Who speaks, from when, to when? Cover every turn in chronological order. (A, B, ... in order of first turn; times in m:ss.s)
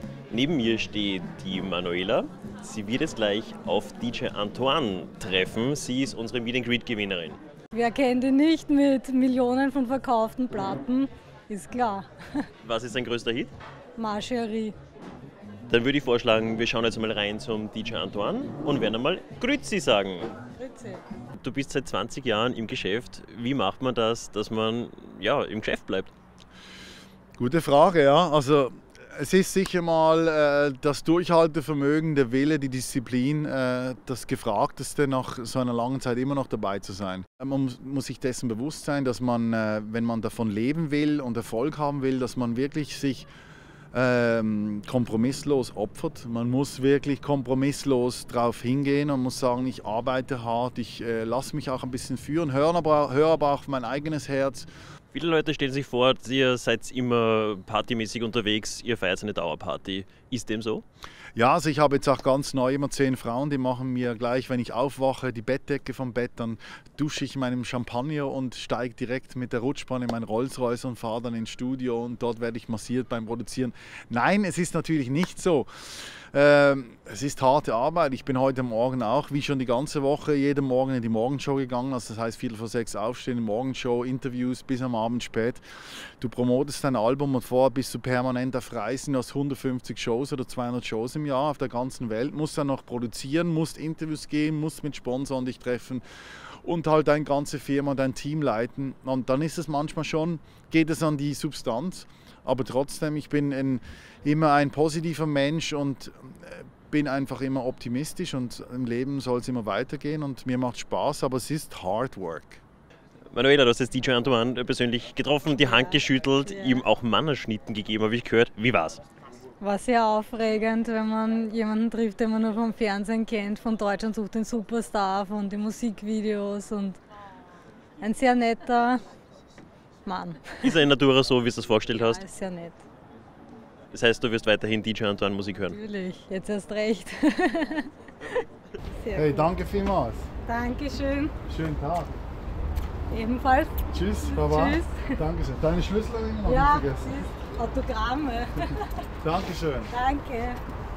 0:00.3-0:07.4 A
0:07.7-0:12.4 B
0:12.6-0:13.5 A
0:14.0-0:14.8 B
0:15.7-0:20.3 A
0:20.6-0:21.0 B
0:21.4-0:26.1 A
0:27.4-0:43.3 C
0:43.9-0:54.7 C
0:55.1-1:00.8 A
1:01.3-1:52.6 C
1:53.3-1:59.0 A
1:55.5-1:56.8 B
1:59.6-2:07.0 B
2:08.0-2:09.0 B
2:10.0-2:10.8 B
2:10.6-2:12.2 A
2:11.9-2:12.8 B
2:13.9-2:15.8 A
2:15.7-2:18.4 B
2:19.0-2:19.5 B
2:19.1-2:20.3 C
2:20.4-2:21.3 B
2:21.5-2:22.1 C
2:23.1-2:25.2 B
2:23.9-2:27.3 C
2:26.4-2:28.8 B
2:29.2-2:29.9 C
2:29.9-2:30.6 B